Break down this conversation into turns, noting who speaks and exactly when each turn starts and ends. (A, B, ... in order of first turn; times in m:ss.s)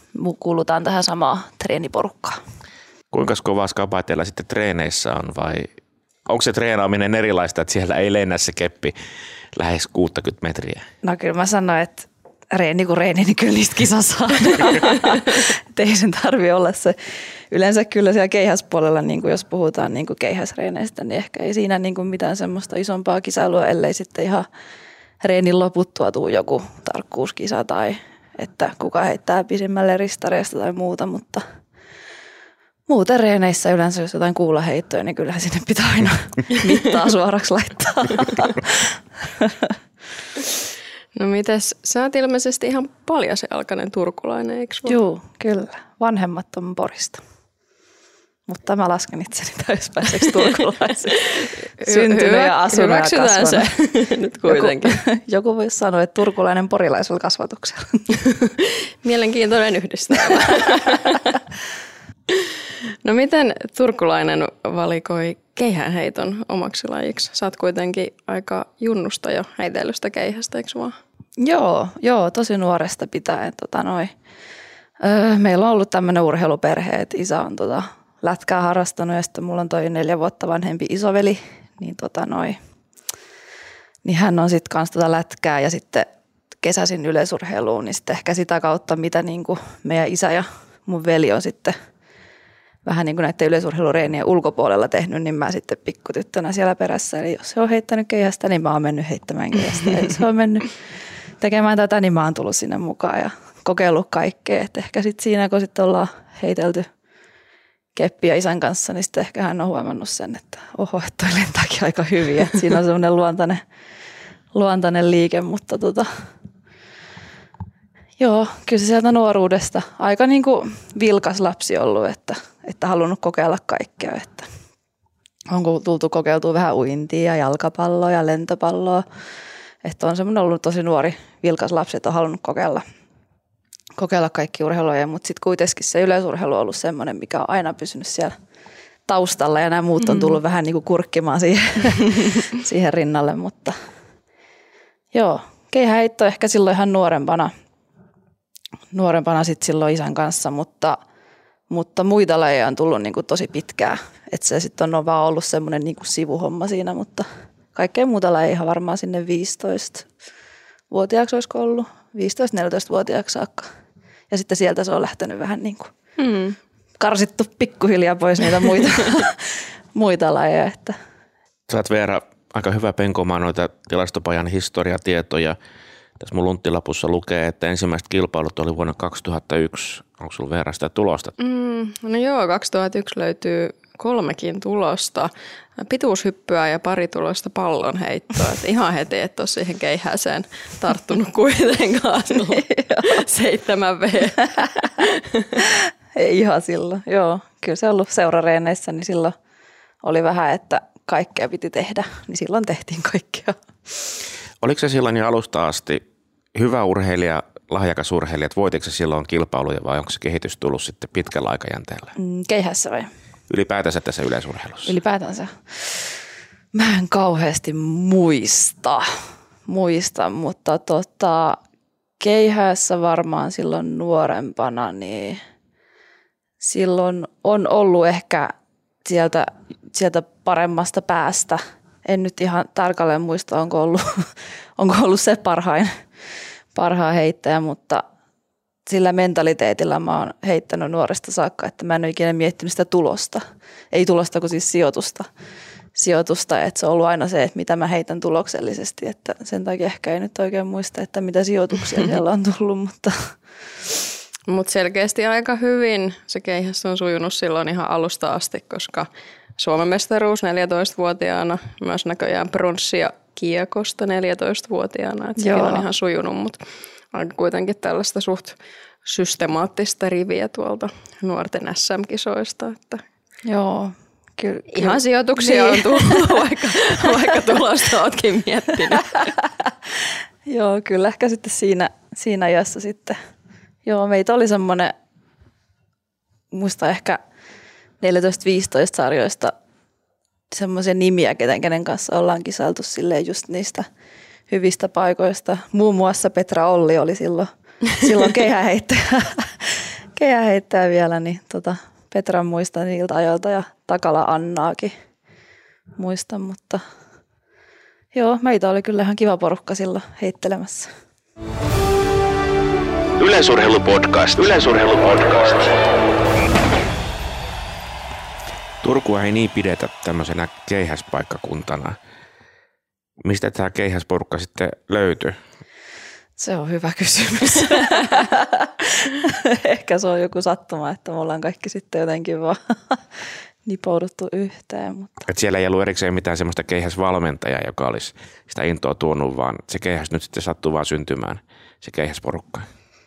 0:00.2-0:02.4 A
0:03.1-0:05.7 B
0:06.3-0:08.9 B
0:09.5-0:10.9 B
0:11.0-0:17.0 A
0:17.5-0:24.5 A
0:25.2-0:31.4 A
0:32.9-0:39.5 A
0:41.2-0:45.0 C
0:44.9-0:47.2 A
0:48.5-0:53.7 A
0:51.8-0:55.0 C
0:54.5-0:58.1 A
0:58.6-1:01.3 C
1:03.0-1:11.0 C
1:11.4-1:14.1 A
1:15.0-1:22.6 A
1:24.0-1:26.1 A
1:26.6-1:31.8 A
1:32.8-1:40.7 A
1:41.4-1:46.9 A
1:48.0-1:53.6 A
1:54.5-1:56.1 A
1:58.2-2:04.5 A
2:05.5-2:09.0 A
2:09.8-2:12.8 A
2:14.0-2:18.4 A
2:19.1-2:23.8 A
2:25.1-2:27.5 A
2:28.9-2:31.0 A
2:31.7-2:40.1 A
2:40.9-2:43.7 A
2:44.3-2:45.9 A
2:46.2-2:46.6 C
2:47.0-2:51.0 A
2:51.7-2:55.6 B
2:56.2-3:01.3 B
3:01.4-3:15.4 C
3:12.7-3:13.1 A
3:16.2-3:19.4 A
3:20.0-3:23.6 A
3:24.6-3:26.0 B
3:26.6-3:32.1 B
3:32.2-3:33.1 A
3:33.5-3:34.9 B
3:34.8-3:36.1 A
3:36.7-3:39.1 A
3:39.7-3:41.6 A
3:42.2-3:45.4 A
3:46.6-3:48.5 A
3:49.0-3:55.9 A
3:56.7-3:58.0 A
3:58.9-4:05.3 A
4:06.0-4:13.3 A
4:14.5-4:26.6 C
4:25.4-4:25.9 A
4:27.1-4:33.0 C
4:33.4-4:37.1 A
4:34.7-4:39.2 C
4:40.5-4:43.2 A
4:43.9-4:44.9 A
4:46.5-4:47.2 A
4:48.0-4:49.6 A
4:50.5-4:53.9 A
4:54.5-5:04.9 A
5:06.0-5:06.8 A
5:08.1-5:10.9 A
5:13.2-5:15.7 D
5:18.8-5:22.0 B
5:23.2-5:25.4 B
5:26.4-5:35.3 A
5:35.3-5:42.7 B